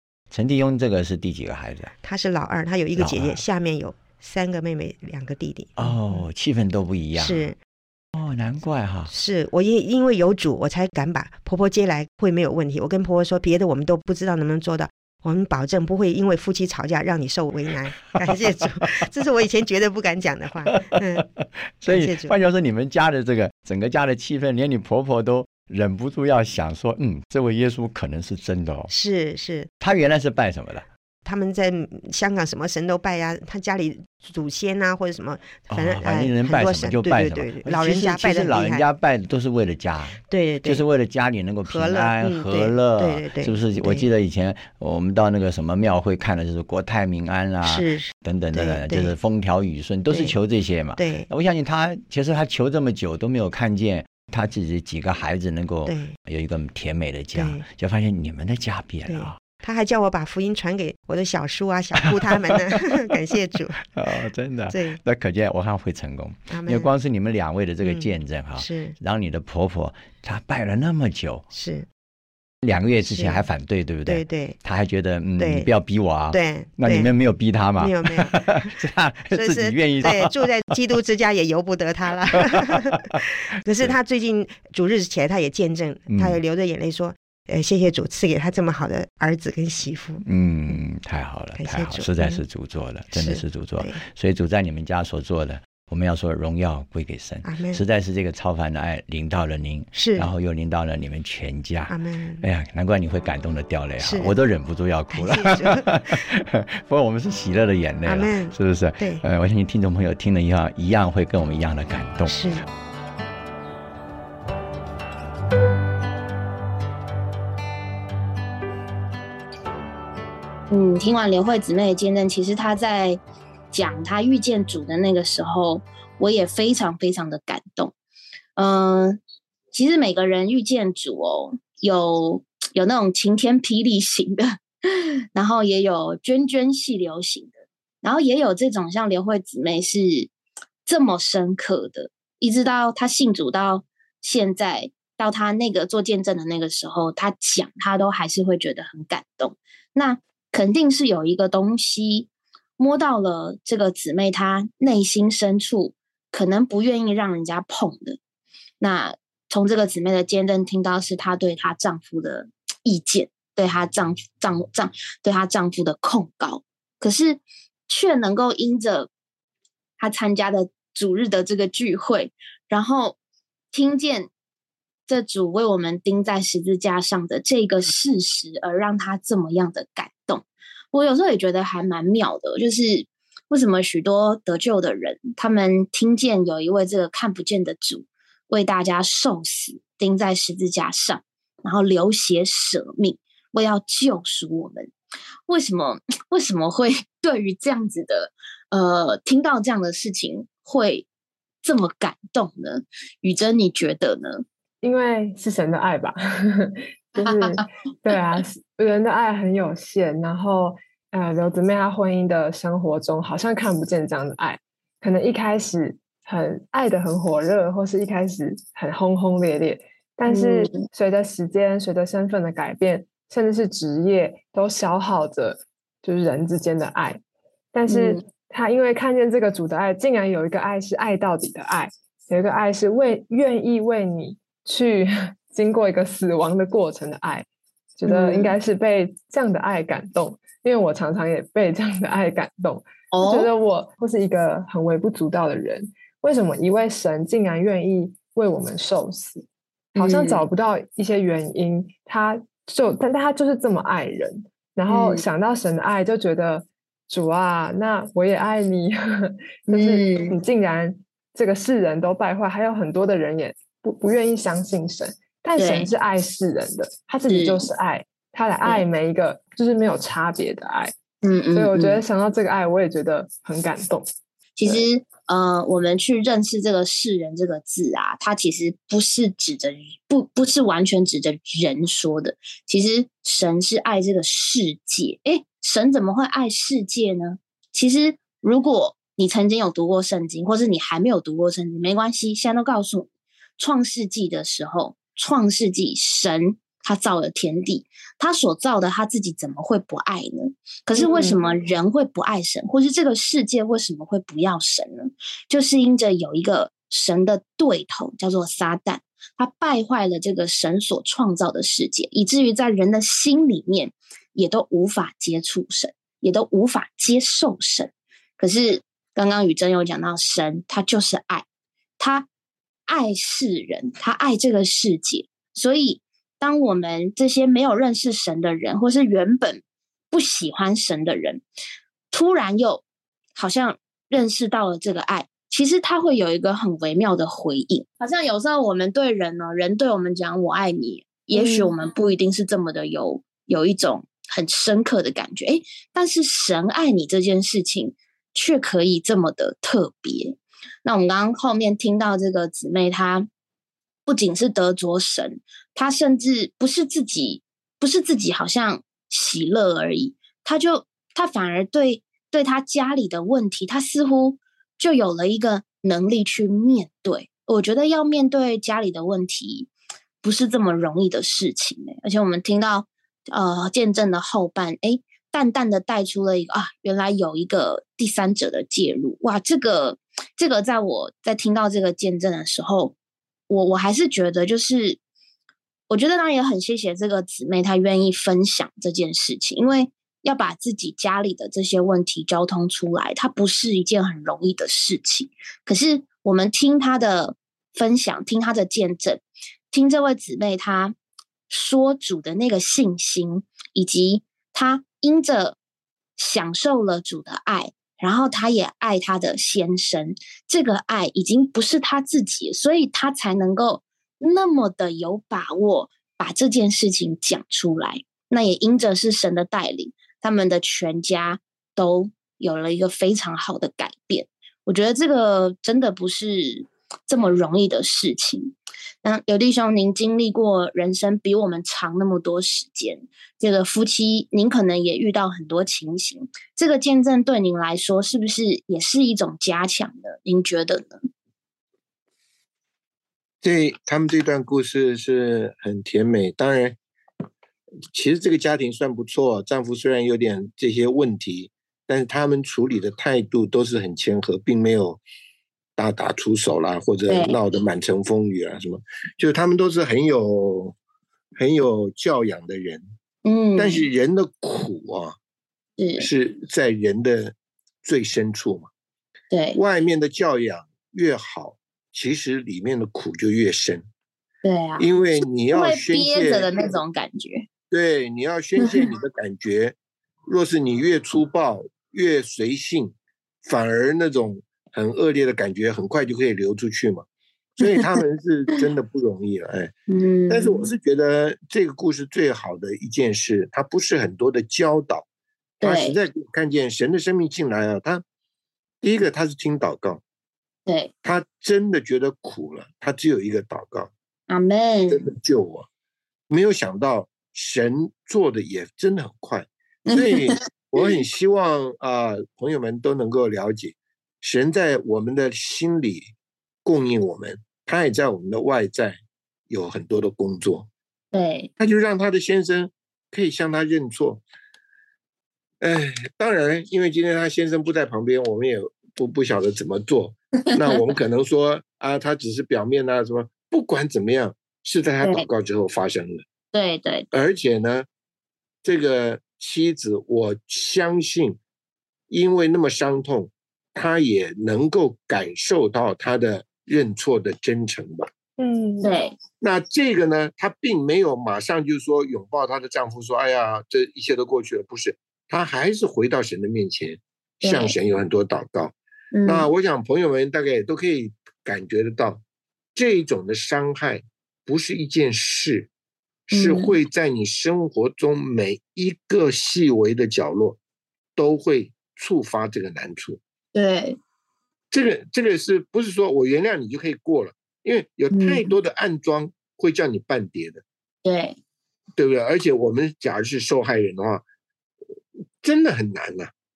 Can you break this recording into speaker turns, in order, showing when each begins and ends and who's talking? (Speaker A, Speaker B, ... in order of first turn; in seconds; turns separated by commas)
Speaker A: 0.3-1.9, Speaker B: 2.0-6.2, Speaker A: 3.0-3.4, Speaker A: 5.8-7.5, Speaker B: 7.2-7.6, Speaker A: 8.1-9.1, Speaker B: 9.1-21.3, Speaker A: 20.7-28.9, Speaker B: 21.9-22.4, Speaker B: 28.9-29.7, Speaker A: 29.8-30.9, Speaker B: 31.2-38.9, Speaker A: 35.7-59.4, Speaker B: 40.3-40.8, Speaker B: 41.7-44.1, Speaker B: 47.6-49.1, Speaker B: 50.1-50.4, Speaker B: 51.0-51.3, Speaker B: 55.9-56.1, Speaker B: 57.4-57.6, Speaker B: 59.1-63.9, Speaker A: 62.1-63.0, Speaker A: 63.9-71.5, Speaker B: 64.7-65.0, Speaker B: 66.5-66.9, Speaker B: 67.8-69.0, Speaker B: 71.5-71.9, Speaker A: 72.6-80.4, Speaker B: 73.1-73.4, Speaker B: 74.1-74.6, Speaker B: 75.4-75.7, Speaker B: 76.3-77.1, Speaker B: 77.8-78.8, Speaker B: 79.3-90.2, Speaker A: 82.3-83.2, Speaker A: 86.1-86.4, Speaker A: 90.2-112.5, Speaker B: 91.6-92.4, Speaker B: 93.1-94.0, Speaker B: 97.4-97.8, Speaker B: 99.9-100.3, Speaker B: 101.9-102.5, Speaker B: 104.0-104.3, Speaker B: 105.1-106.3, Speaker B: 108.0-109.2, Speaker B: 112.3-112.7, Speaker C: 120.7-123.2, Speaker C: 123.7-128.0, Speaker C: 128.6-129.2, Speaker C: 129.7-140.3, Speaker C: 140.9-158.2, Speaker C: 158.8-169.1, Speaker C: 170.0-173.2, Speaker C: 173.7-174.3, Speaker C: 175.1-194.9, Speaker C: 195.5-201.1, Speaker C: 201.6-204.4, Speaker D: 204.8-227.2, Speaker C: 207.2-208.2, Speaker C: 220.3-220.9, Speaker D: 227.7-237.5, Speaker C: 227.9-228.2, Speaker D: 238.0-270.9, Speaker C: 238.1-238.6, Speaker C: 243.1-243.5, Speaker C: 249.9-250.4, Speaker C: 254.9-255.2, Speaker C: 259.7-260.4, Speaker C: 265.6-265.9, Speaker C: 267.3-267.7, Speaker C: 271.2-272.0, Speaker D: 271.5-274.1, Speaker C: 274.6-293.1, Speaker C: 293.6-321.5, Speaker D: 300.9-301.4, Speaker C: 322.0-322.3, Speaker C: 322.9-331.4, Speaker C: 332.1-332.8, Speaker C: 333.4-353.3, Speaker D: 341.3-341.7, Speaker C: 354.1-369.7, Speaker C: 370.2-383.0, Speaker C: 383.5-385.0, Speaker C: 385.9-400.9, Speaker C: 401.5-405.6, Speaker C: 406.2-441.1, Speaker E: 443.4-446.8, Speaker E: 447.9-455.0, Speaker E: 455.8-460.8, Speaker C: 457.1-457.4, Speaker E: 461.4-462.9, Speaker C: 463.2-463.8, Speaker E: 463.6-465.2, Speaker C: 465.8-466.1, Speaker E: 466.0-468.7, Speaker C: 469.3-469.6, Speaker E: 469.6-473.8, Speaker C: 474.4-477.5, Speaker E: 474.8-476.6, Speaker E: 477.7-487.1, Speaker C: 478.6-478.9, Speaker E: 487.6-489.7, Speaker C: 487.7-487.9, Speaker C: 489.9-490.7, Speaker E: 490.3-495.1, Speaker E: 495.6-498.0, Speaker C: 495.6-496.0, Speaker E: 498.8-500.0, Speaker C: 500.7-500.9, Speaker E: 501.0-503.9, Speaker C: 504.3-505.1, Speaker E: 504.9-505.7, Speaker E: 506.3-516.1, Speaker C: 509.9-510.9, Speaker E: 516.6-519.0, Speaker E: 519.5-520.7, Speaker C: 521.1-521.5, Speaker E: 521.6-524.2, Speaker E: 525.6-536.2, Speaker C: 535.0-535.3, Speaker C: 536.5-537.1, Speaker E: 537.1-537.9, Speaker E: 538.6-541.4, Speaker E: 542.1-548.1, Speaker D: 548.4-549.0, Speaker C: 548.8-549.1, Speaker E: 549.4-558.8, Speaker C: 557.4-557.8, Speaker C: 559.1-559.5, Speaker E: 559.3-562.2, Speaker E: 562.8-565.7, Speaker E: 566.3-570.6, Speaker C: 566.3-566.7, Speaker E: 571.2-573.2, Speaker C: 573.5-574.0, Speaker E: 574.7-580.6, Speaker C: 578.1-578.5, Speaker C: 581.0-581.4, Speaker E: 582.0-584.2, Speaker E: 585.4-586.3